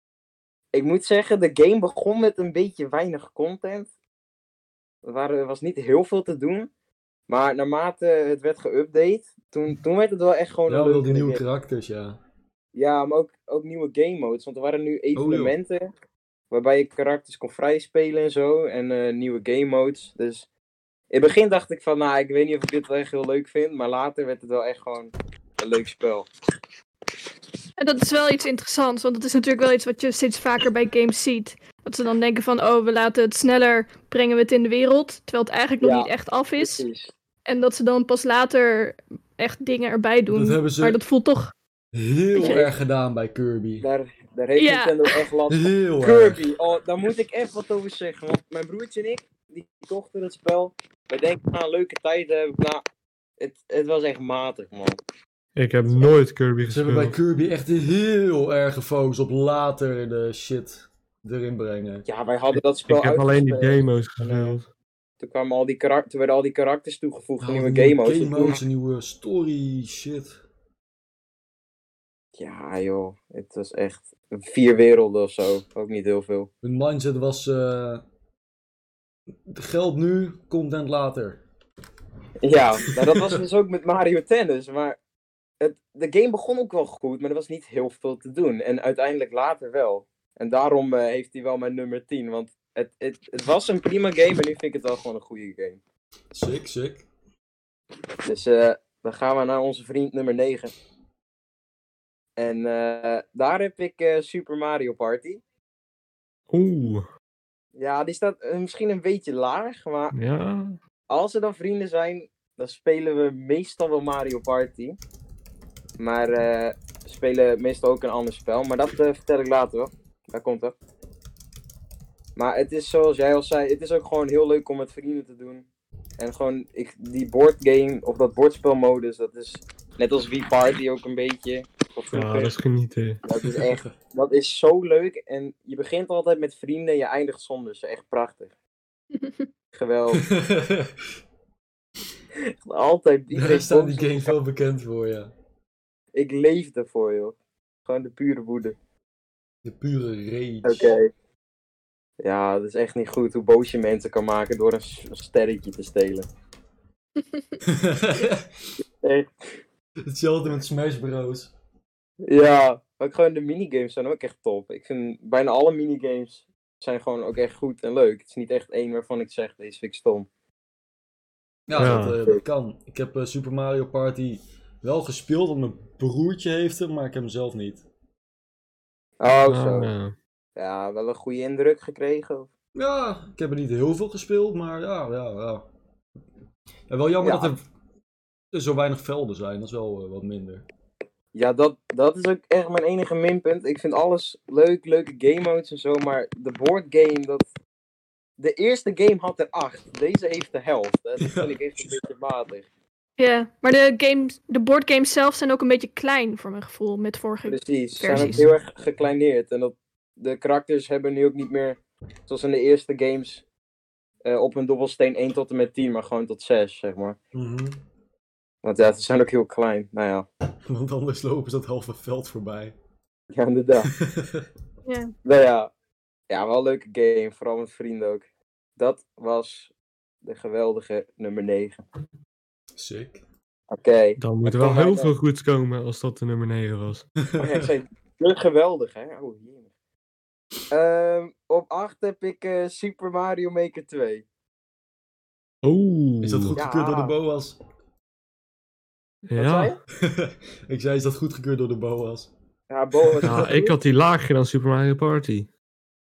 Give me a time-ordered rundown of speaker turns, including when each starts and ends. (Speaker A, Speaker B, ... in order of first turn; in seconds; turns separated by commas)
Speaker A: 0.7-3.9, Speaker A: 5.0-6.7, Speaker A: 7.3-11.4, Speaker B: 10.7-12.2, Speaker A: 12.8-15.9, Speaker B: 15.2-15.5, Speaker A: 16.5-20.5, Speaker A: 21.1-26.3, Speaker C: 27.8-36.9, Speaker A: 35.8-37.1, Speaker C: 37.5-41.5, Speaker B: 40.3-41.0, Speaker B: 41.9-43.9, Speaker C: 42.4-42.6, Speaker A: 42.4-42.7, Speaker A: 43.8-52.8, Speaker C: 44.6-45.2, Speaker B: 45.5-46.4, Speaker A: 53.4-55.0, Speaker D: 55.6-57.2, Speaker B: 56.7-62.1, Speaker A: 62.1-64.6, Speaker D: 62.5-64.7, Speaker A: 65.2-68.6, Speaker B: 67.4-70.4, Speaker A: 72.4-76.5, Speaker B: 76.6-78.0, Speaker B: 79.5-81.4, Speaker A: 82.4-85.0, Speaker B: 83.1-83.4, Speaker A: 85.6-95.8, Speaker B: 96.3-97.1, Speaker A: 98.2-100.7, Speaker A: 102.4-105.4, Speaker D: 106.5-107.1, Speaker A: 107.8-110.2, Speaker D: 110.1-110.8, Speaker A: 111.1-115.0, Speaker A: 116.0-120.8, Speaker A: 122.4-125.7, Speaker A: 126.2-132.6, Speaker D: 132.1-133.2, Speaker A: 133.2-138.5, Speaker B: 133.5-133.9, Speaker C: 139.1-139.5, Speaker A: 139.7-140.2, Speaker B: 140.2-141.0, Speaker A: 142.6-144.3, Speaker B: 143.3-145.3, Speaker A: 146.2-147.4, Speaker A: 147.9-148.8, Speaker B: 149.6-150.9, Speaker A: 150.6-151.1, Speaker A: 152.2-156.3, Speaker C: 157.2-157.6, Speaker B: 157.7-158.7, Speaker A: 159.0-159.3, Speaker B: 160.1-161.5, Speaker A: 162.2-170.3, Speaker B: 171.7-177.8, Speaker D: 171.8-172.2, Speaker A: 179.2-179.9, Speaker D: 179.5-180.2, Speaker A: 180.6-182.5, Speaker B: 182.8-185.7, Speaker B: 186.9-187.7, Speaker A: 187.2-187.5, Speaker B: 188.5-190.7, Speaker A: 191.3-197.4, Speaker A: 198.4-202.7, Speaker B: 201.2-201.9, Speaker C: 203.2-208.4, Speaker A: 207.5-213.4, Speaker D: 208.2-208.4, Speaker A: 214.2-217.2, Speaker B: 217.3-217.8, Speaker A: 218.6-220.3, Speaker B: 220.7-222.8, Speaker A: 223.3-223.9, Speaker B: 223.9-224.5, Speaker C: 224.9-225.1, Speaker A: 225.2-225.7, Speaker A: 226.3-228.2, Speaker A: 228.8-229.7, Speaker A: 230.2-231.8, Speaker B: 232.8-233.2, Speaker A: 233.7-235.1, Speaker D: 234.2-237.1, Speaker B: 237.3-237.7, Speaker A: 237.4-239.7, Speaker A: 240.7-244.2, Speaker D: 245.6-246.6, Speaker B: 246.2-247.6, Speaker A: 246.6-247.1, Speaker D: 249.3-249.7, Speaker A: 249.4-249.8, Speaker B: 250.0-252.3, Speaker A: 252.7-253.8, Speaker B: 253.0-253.5, Speaker D: 253.2-255.5